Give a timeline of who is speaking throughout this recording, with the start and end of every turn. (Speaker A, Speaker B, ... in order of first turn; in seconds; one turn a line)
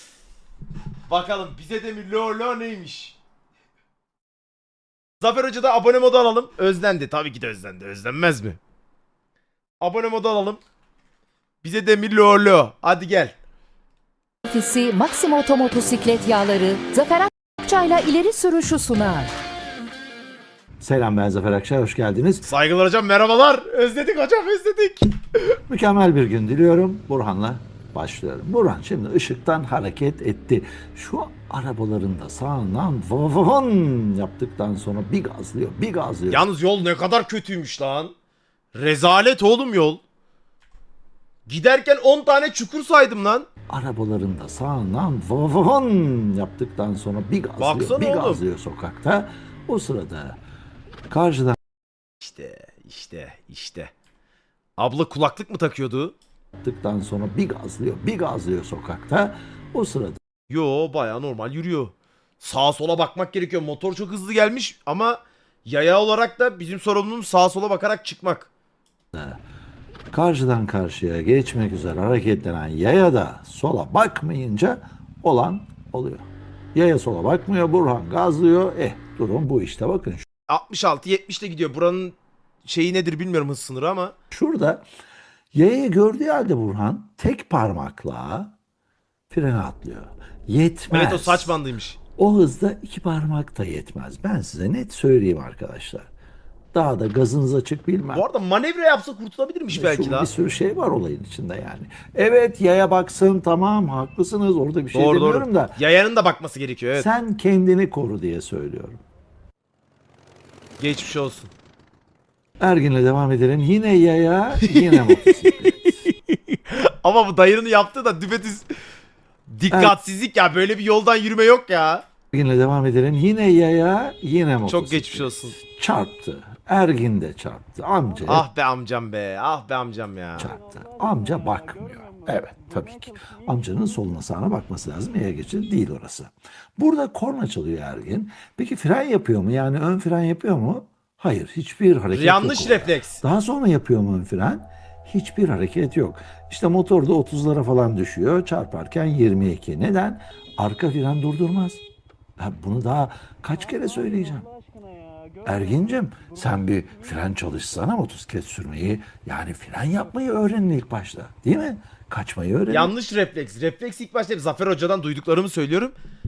Speaker A: 1.1-3.2
Speaker A: 5.2-8.6
Speaker A: 9.8-10.6
Speaker A: 11.6-13.3
Speaker B: 14.4-19.3
Speaker C: 20.8-22.5
Speaker A: 22.4-25.1
Speaker C: 25.7-36.5
Speaker A: 36.3-38.1
Speaker A: 38.7-40.0
Speaker A: 41.5-43.5
Speaker C: 43.7-50.4
Speaker A: 47.6-48.4
Speaker C: 51.1-51.6
Speaker A: 52.2-53.9
Speaker A: 54.8-56.1
Speaker C: 56.6-60.2
Speaker A: 60.5-68.5
Speaker C: 69.1-69.4
Speaker C: 70.1-80.2
Speaker A: 80.5-84.1
Speaker C: 84.3-84.8
Speaker C: 85.5-88.5
Speaker C: 89.3-91.6
Speaker A: 90.9-92.0
Speaker C: 92.2-96.1
Speaker C: 96.7-98.2
Speaker A: 98.1-100.3
Speaker C: 99.7-105.8
Speaker A: 104.9-107.1
Speaker C: 107.0-109.0
Speaker A: 110.8-111.5
Speaker C: 112.6-116.0
Speaker A: 114.6-115.9
Speaker A: 116.5-118.7
Speaker A: 119.5-122.0
Speaker C: 119.7-120.0
Speaker C: 122.3-128.4
Speaker A: 124.7-125.5
Speaker A: 128.3-130.5
Speaker C: 130.4-151.8
Speaker A: 142.1-143.2
Speaker C: 152.4-154.5
Speaker C: 155.4-162.9
Speaker A: 162.7-165.9